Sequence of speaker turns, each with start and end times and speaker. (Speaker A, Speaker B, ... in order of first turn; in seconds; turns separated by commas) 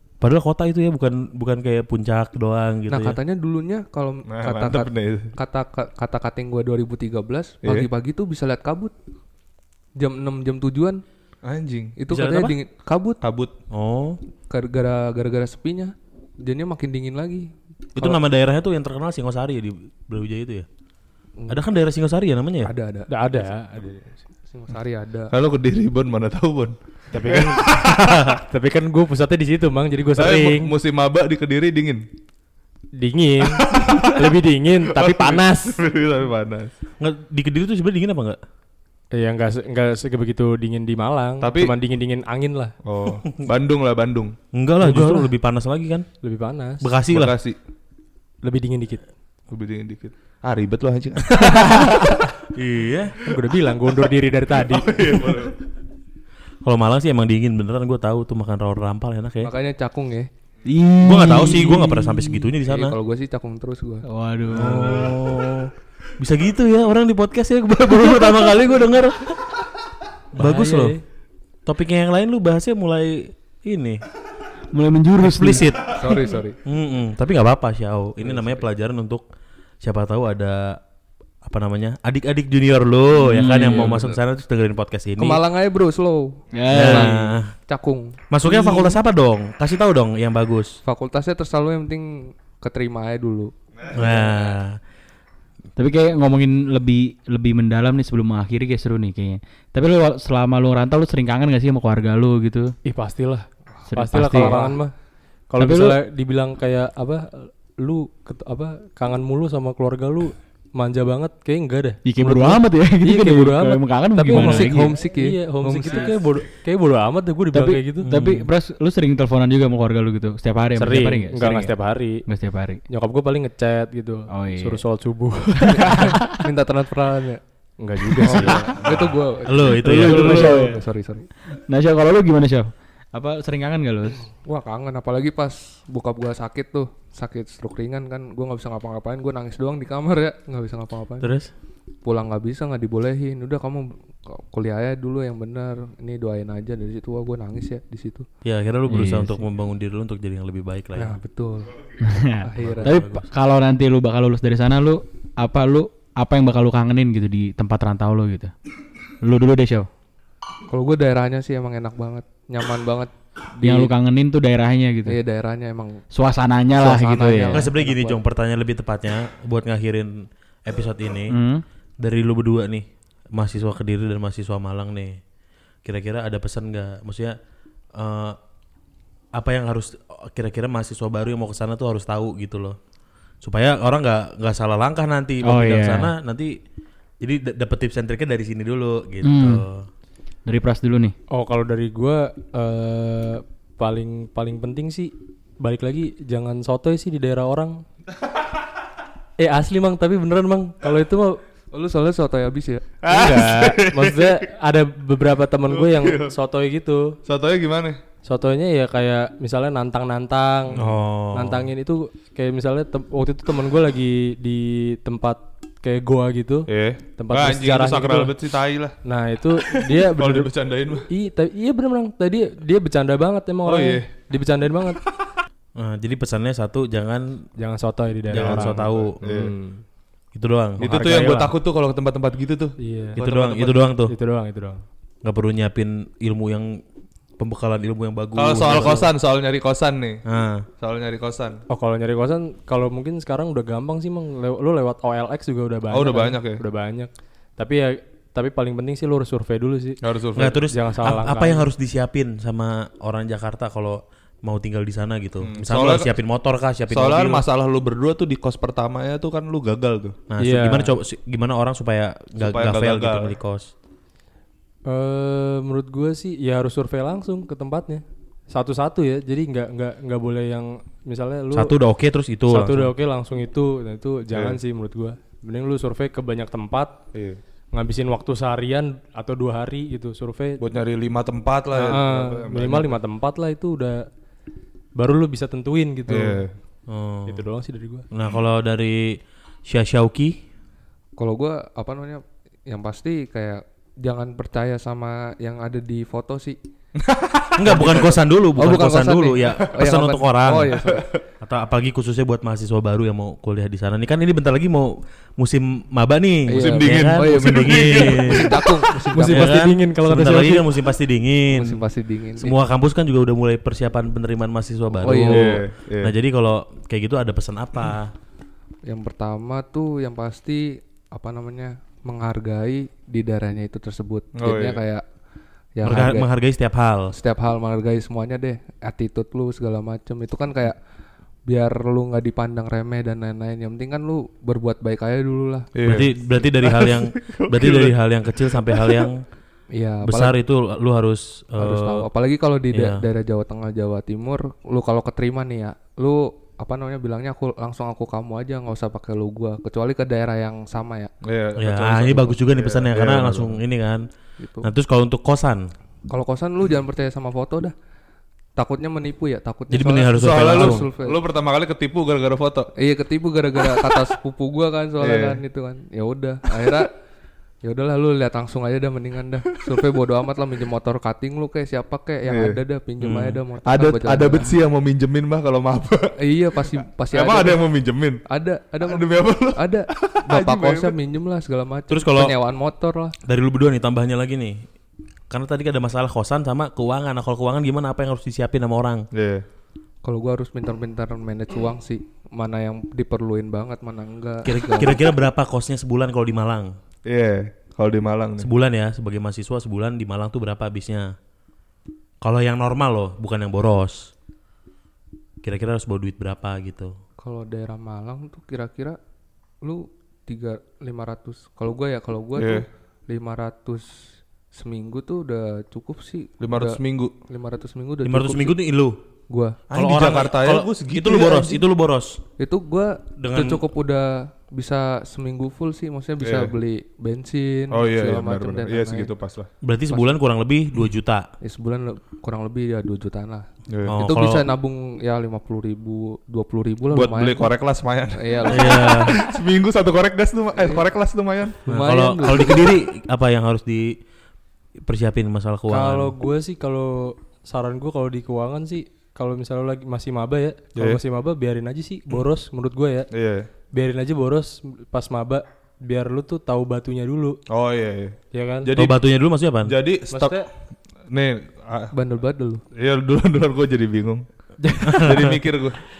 Speaker A: 0.2-3.2, Speaker B: 2.9-8.9, Speaker C: 4.3-5.3, Speaker B: 10.0-11.0, Speaker C: 11.4-11.9, Speaker B: 12.0-13.2, Speaker A: 12.1-12.6, Speaker C: 13.2-13.5, Speaker A: 13.7-14.2, Speaker B: 14.5-18.2, Speaker A: 17.9-20.6, Speaker A: 21.5-22.7, Speaker B: 22.6-23.2, Speaker D: 23.1-24.1, Speaker B: 24.5-25.3, Speaker C: 25.3-27.9, Speaker D: 27.1-30.7, Speaker A: 27.8-28.4, Speaker C: 30.1-32.0, Speaker D: 33.0-35.8, Speaker C: 33.4-34.3, Speaker C: 34.9-36.7, Speaker A: 37.0-38.4, Speaker D: 39.1-42.7, Speaker C: 41.4-41.7, Speaker C: 42.8-44.4, Speaker A: 44.5-46.1, Speaker C: 44.9-45.2, Speaker D: 46.2-46.9, Speaker A: 46.8-47.4, Speaker C: 47.1-47.6, Speaker D: 48.4-49.0, Speaker C: 49.5-52.3, Speaker A: 52.5-53.2, Speaker D: 53.2-55.3, Speaker C: 53.9-55.6, Speaker A: 56.6-59.5, Speaker B: 59.4-60.3, Speaker E: 60.7-62.3, Speaker A: 61.0-63.0, Speaker B: 62.6-64.0, Speaker E: 64.0-65.1, Speaker A: 64.5-69.5, Speaker A: 70.3-70.9, Speaker D: 70.4-71.0, Speaker A: 71.7-74.0, Speaker E: 74.7-75.7, Speaker A: 75.2-79.2, Speaker B: 75.9-76.6, Speaker A: 79.8-80.8, Speaker A: 81.4-85.4, Speaker E: 83.3-84.0, Speaker B: 83.4-84.2, Speaker B: 85.2-89.0, Speaker E: 86.5-87.2, Speaker A: 86.7-87.5, Speaker A: 88.3-90.8, Speaker B: 90.8-94.0, Speaker A: 93.9-94.8, Speaker E: 95.8-102.7, Speaker D: 102.8-104.9, Speaker E: 103.9-104.6, Speaker B: 104.3-104.8, Speaker D: 105.5-118.1, Speaker E: 105.6-106.0, Speaker E: 112.0-114.9, Speaker B: 114.3-116.1, Speaker C: 115.6-116.1, Speaker E: 117.5-121.7, Speaker A: 118.1-118.5, Speaker D: 120.8-122.2, Speaker E: 122.2-122.8, Speaker D: 122.9-126.2, Speaker E: 124.3-124.8, Speaker E: 125.6-126.4, Speaker B: 125.7-127.4, Speaker D: 127.8-128.8, Speaker B: 128.2-131.3, Speaker E: 128.2-128.5, Speaker A: 129.4-130.5, Speaker E: 129.8-130.8, Speaker E: 131.7-134.2, Speaker B: 134.4-141.3, Speaker A: 141.2-141.5, Speaker B: 142.0-148.3, Speaker A: 148.4-151.2, Speaker E: 148.9-149.4, Speaker B: 150.9-151.7, Speaker E: 152.0-158.5, Speaker B: 152.4-153.1, Speaker A: 152.6-153.2, Speaker E: 159.2-159.9, Speaker B: 160.7-163.9, Speaker E: 163.6-165.2, Speaker B: 165.1-166.0, Speaker E: 166.1-167.7, Speaker B: 166.8-168.2, Speaker A: 167.5-171.3, Speaker E: 171.3-171.6, Speaker A: 172.0-175.2, Speaker A: 175.8-177.4, Speaker A: 177.9-178.4, Speaker A: 179.3-182.8, Speaker A: 183.4-186.5, Speaker E: 185.4-186.1, Speaker A: 187.2-189.9, Speaker E: 189.2-189.6, Speaker E: 190.4-191.1, Speaker D: 191.3-197.8, Speaker D: 199.4-201.4, Speaker B: 201.7-202.9, Speaker C: 203.0-204.4, Speaker D: 203.1-207.2, Speaker C: 205.7-206.3, Speaker C: 207.2-208.0, Speaker D: 208.2-210.8, Speaker A: 210.8-211.7, Speaker D: 211.3-218.3, Speaker C: 216.7-218.9, Speaker D: 219.0-220.5, Speaker C: 219.6-221.1, Speaker D: 221.1-225.0, Speaker C: 223.6-224.1, Speaker A: 225.8-227.4, Speaker D: 227.6-229.8, Speaker A: 228.3-229.2, Speaker C: 228.3-229.5, Speaker A: 230.3-230.9, Speaker C: 230.8-233.8, Speaker D: 230.8-231.5, Speaker D: 232.8-233.2, Speaker A: 233.2-234.1, Speaker D: 234.1-234.8, Speaker A: 235.2-236.8, Speaker A: 237.4-239.1, Speaker C: 238.3-240.2, Speaker D: 238.6-239.1, Speaker A: 240.2-240.7, Speaker C: 240.8-241.6, Speaker D: 241.7-250.0, Speaker C: 245.9-246.6, Speaker C: 250.0-250.6, Speaker A: 250.3-257.4, Speaker D: 250.7-251.6, Speaker C: 255.4-256.1, Speaker C: 256.9-260.2, Speaker A: 260.3-263.7, Speaker D: 260.4-260.9, Speaker C: 262.4-263.3, Speaker D: 264.9-271.7, Speaker A: 271.5-272.9, Speaker D: 272.5-277.0, Speaker C: 274.3-274.6, Speaker C: 277.1-277.4, Speaker D: 277.7-280.6, Speaker C: 280.6-283.0, Speaker D: 281.7-284.1, Speaker D: 284.9-286.4, Speaker C: 286.1-286.5, Speaker A: 286.9-287.4, Speaker D: 287.3-288.1, Speaker A: 288.1-290.4, Speaker B: 291.2-296.6, Speaker C: 297.0-298.1, Speaker A: 297.6-300.7, Speaker B: 298.6-301.1, Speaker C: 300.7-301.2, Speaker A: 301.4-308.6, Speaker B: 306.5-309.6, Speaker C: 306.5-308.9, Speaker A: 309.1-311.8, Speaker D: 309.1-310.7, Speaker B: 311.5-312.5, Speaker A: 312.4-318.1, Speaker B: 315.0-315.6, Speaker C: 315.1-316.1, Speaker B: 318.9-325.0, Speaker C: 324.4-324.8, Speaker B: 325.8-326.3, Speaker A: 325.8-327.1, Speaker B: 327.1-330.8, Speaker B: 331.5-335.7, Speaker C: 335.7-339.1, Speaker A: 335.8-339.2, Speaker B: 339.7-340.4, Speaker A: 340.0-342.1, Speaker B: 341.6-351.1, Speaker A: 342.7-343.0, Speaker C: 351.2-353.6, Speaker A: 351.6-354.1, Speaker B: 354.4-354.7, Speaker A: 354.6-355.7, Speaker B: 356.1-357.7, Speaker B: 358.6-361.2, Speaker A: 359.7-360.9, Speaker C: 360.2-362.7, Speaker B: 362.8-366.9, Speaker C: 363.6-364.0, Speaker C: 365.0-365.4, Speaker B: 367.6-374.6, Speaker C: 372.2-372.6, Speaker A: 373.0-373.4, Speaker C: 373.6-378.2, Speaker B: 376.2-377.6, Speaker B: 378.3-383.1, Speaker C: 378.9-380.9, Speaker A: 381.9-382.3, Speaker A: 383.3-384.6, Speaker A: 385.3-389.1, Speaker C: 389.1-389.4, Speaker B: 390.0-395.0, Speaker A: 394.4-396.7, Speaker C: 397.1-398.5, Speaker A: 398.4-401.1, Speaker A: 402.2-404.1, Speaker A: 405.4-406.9, Speaker B: 407.2-409.0, Speaker B: 409.6-418.6, Speaker C: 412.4-412.6, Speaker C: 416.4-417.1, Speaker A: 418.0-419.0, Speaker B: 419.3-419.6, Speaker C: 419.7-421.6, Speaker A: 419.7-422.2, Speaker B: 422.4-429.1, Speaker A: 423.2-423.7, Speaker C: 426.2-426.5, Speaker C: 427.7-429.5, Speaker A: 429.6-431.3, Speaker B: 431.4-433.5, Speaker C: 433.7-434.0, Speaker A: 433.9-434.5, Speaker B: 434.0-437.5, Speaker C: 436.9-441.6, Speaker B: 438.1-439.2, Speaker A: 438.5-439.2, Speaker B: 440.6-440.8, Speaker B: 441.7-442.7, Speaker A: 441.7-443.9, Speaker A: 444.8-446.1, Speaker D: 445.7-453.1, Speaker C: 453.1-453.5, Speaker D: 453.7-457.4, Speaker C: 457.5-459.0, Speaker D: 458.3-458.7, Speaker A: 458.7-459.7, Speaker C: 459.6-460.4, Speaker D: 460.1-460.5, Speaker C: 461.1-461.9, Speaker B: 461.9-462.6, Speaker C: 462.7-464.2, Speaker D: 464.6-465.4, Speaker A: 464.9-465.3, Speaker C: 464.9-465.8